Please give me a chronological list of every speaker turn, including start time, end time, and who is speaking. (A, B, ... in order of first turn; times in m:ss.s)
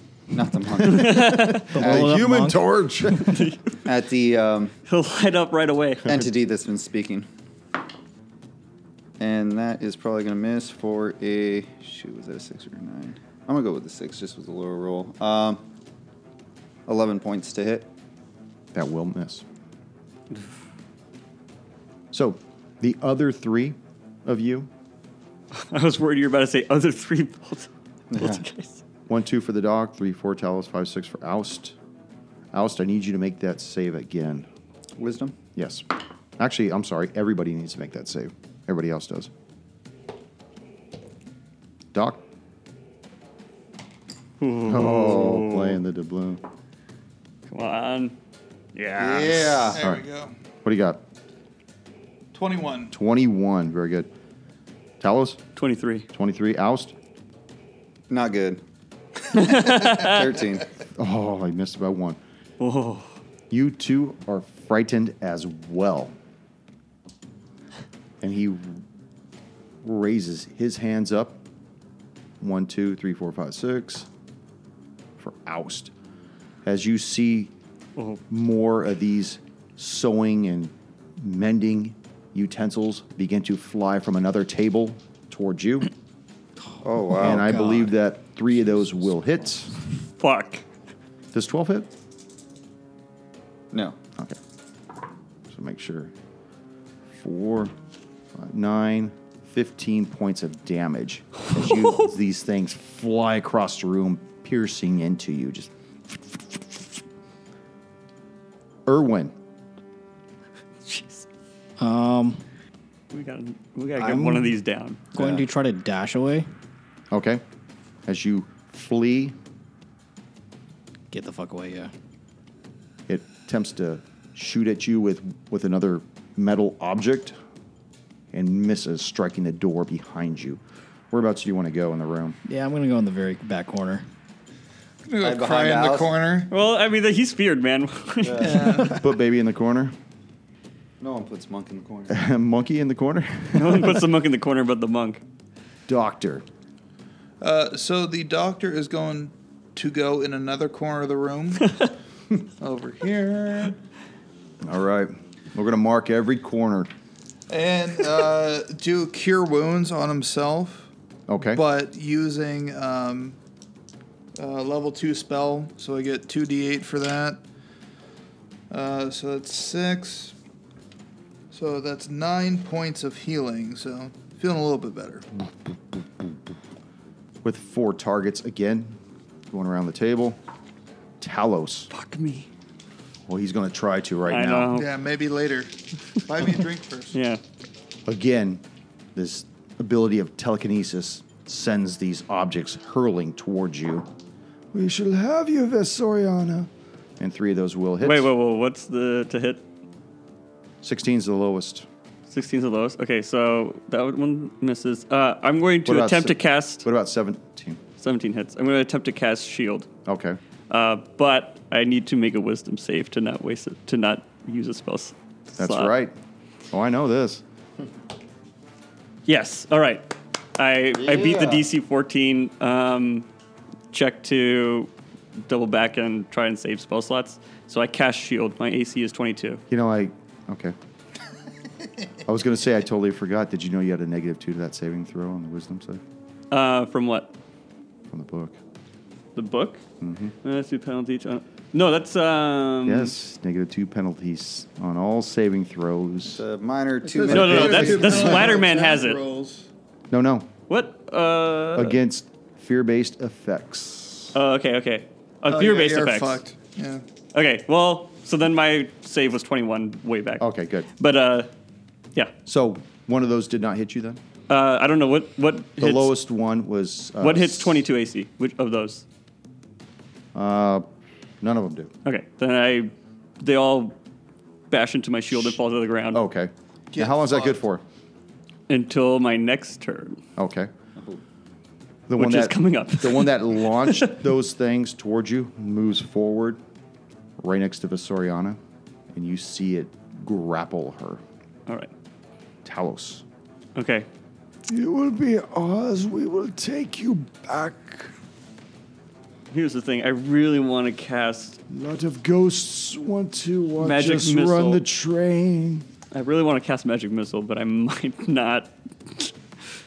0:00.3-0:02.0 A
0:00.8-0:01.7 B
0:01.0-0:03.5 C
0:01.7-0:03.2 D
0:03.2-0:03.8 B
0:03.8-0:04.7 A
0:04.9-0:06.2 B
0:06.0-0:07.3 A
0:09.2-0:15.6 A
0:16.9-0:17.9 A
0:18.7-0:19.4 C
0:22.1-0:24.7 C
0:25.5-0:28.8 B
0:28.1-0:28.4 A
0:29.1-0:31.8 C
0:32.5-0:34.5 C
0:35.0-0:35.4 A
0:35.5-0:35.8 C
0:36.4-0:39.3 C
0:41.9-0:42.2 C
0:44.4-0:45.8 B
0:44.6-0:46.4 C
0:47.5-0:48.2 B
0:48.7-0:49.8 B
0:49.0-0:49.8 A
0:49.3-0:50.3 E
0:49.8-0:50.0 C
0:50.6-0:51.0 C
0:52.3-0:52.9 E
0:52.9-0:54.1 C
0:55.0-0:55.4 C
0:55.6-0:56.1 B
0:56.1-0:56.9 C
0:58.1-0:58.6 A
0:59.3-1:00.4 B
0:59.3-1:00.7 A
1:01.0-1:02.2 C
1:02.6-1:03.1 B
1:03.5-1:06.2 C
1:08.2-1:08.8 C
1:09.8-1:11.4 C
1:12.4-1:14.1 C
1:15.2-1:15.9 C
1:16.6-1:17.5 C
1:18.3-1:25.9 C
1:26.8-1:27.5 A
1:27.1-1:27.9 D
1:27.2-1:29.7 C
1:30.2-1:30.6 B
1:31.3-1:31.9 C
1:33.7-1:34.0 A
1:35.5-1:36.1 C
1:37.1-1:37.7 C
1:38.3-1:46.9 C
1:48.8-1:49.3 C
1:50.8-1:51.2 B
1:51.8-1:52.4 D
1:53.1-1:55.0 B
1:54.0-1:54.6 D
1:55.1-1:56.5 D
1:55.1-1:55.4 A
1:57.1-1:57.4 C
1:58.0-1:59.4 C
2:01.1-2:01.9 D
2:03.1-2:07.4 C
2:08.3-2:10.6 C
2:11.1-2:12.4 C
2:12.4-2:14.0 D
2:15.0-2:16.5 E
2:15.2-2:16.2 A
2:16.5-2:19.0 B
2:18.2-2:19.0 A
2:18.4-2:19.0 E
2:19.0-2:19.9 C
2:21.0-2:22.2 A
2:22.1-2:24.0 C
2:23.5-2:25.2 B
2:25.9-2:26.4 C
2:27.4-2:31.8 E
2:32.5-2:33.8 E
2:34.6-2:36.9 C
2:37.5-2:40.9 E
2:41.3-2:41.6 C
2:41.5-2:43.4 E
2:44.4-2:47.4 E
2:48.7-2:50.3 E
2:51.5-2:55.2 E
2:57.4-2:59.0 C
2:59.5-3:00.4 C
3:01.2-3:01.9 C
3:01.9-3:02.5 B
3:03.3-3:04.8 C
3:04.3-3:04.9 B
3:04.7-3:05.7 E
3:06.2-3:07.2 E
3:07.1-3:07.4 B
3:08.0-3:08.6 C
3:09.1-3:14.1 C
3:14.7-3:18.3 C
3:18.0-3:19.6 B
3:20.8-3:21.9 C
3:22.3-3:26.8 B
3:25.8-3:27.8 C
3:28.0-3:29.9 B
3:30.0-3:30.4 C
3:30.7-3:35.9 B
3:35.6-3:36.1 C
3:36.7-3:37.4 C
3:39.2-3:43.3 B
3:40.9-3:41.6 A
3:43.9-3:44.9 B
3:45.4-3:49.6 B
3:49.7-3:50.7 C
3:52.2-3:56.0 C
3:56.5-3:57.3 B
3:58.1-3:58.6 C
3:59.3-3:59.8 B
4:00.0-4:00.3 C
4:00.4-4:03.1 B
4:02.8-4:06.4 C
4:06.3-4:08.6 A
4:07.0-4:09.7 E
4:07.3-4:09.2 B
4:07.4-4:07.8 C
4:10.1-4:10.5 C
4:10.7-4:12.0 B
4:11.7-4:14.4 C
4:14.3-4:16.4 B
4:15.5-4:17.0 E
4:17.3-4:21.5 B
4:20.4-4:20.9 C
4:22.4-4:24.2 C
4:24.5-4:26.1 B
4:25.8-4:27.8 C
4:27.2-4:29.0 B
4:30.3-4:30.9 C
4:31.4-4:31.9 C
4:32.0-4:34.0 B
4:34.7-4:36.2 B
4:36.1-4:37.8 C
4:36.9-4:37.6 E
4:38.7-4:40.2 B
4:40.4-4:40.7 C
4:42.1-4:46.6 C
4:42.2-4:44.2 B
4:47.4-4:48.6 C
4:49.1-4:51.2 C
4:52.6-4:53.2 C
4:53.8-4:54.1 B
4:54.7-4:58.1 C
4:59.5-5:01.6 B
5:01.7-5:05.9 C
5:03.8-5:04.8 B
5:06.1-5:09.3 B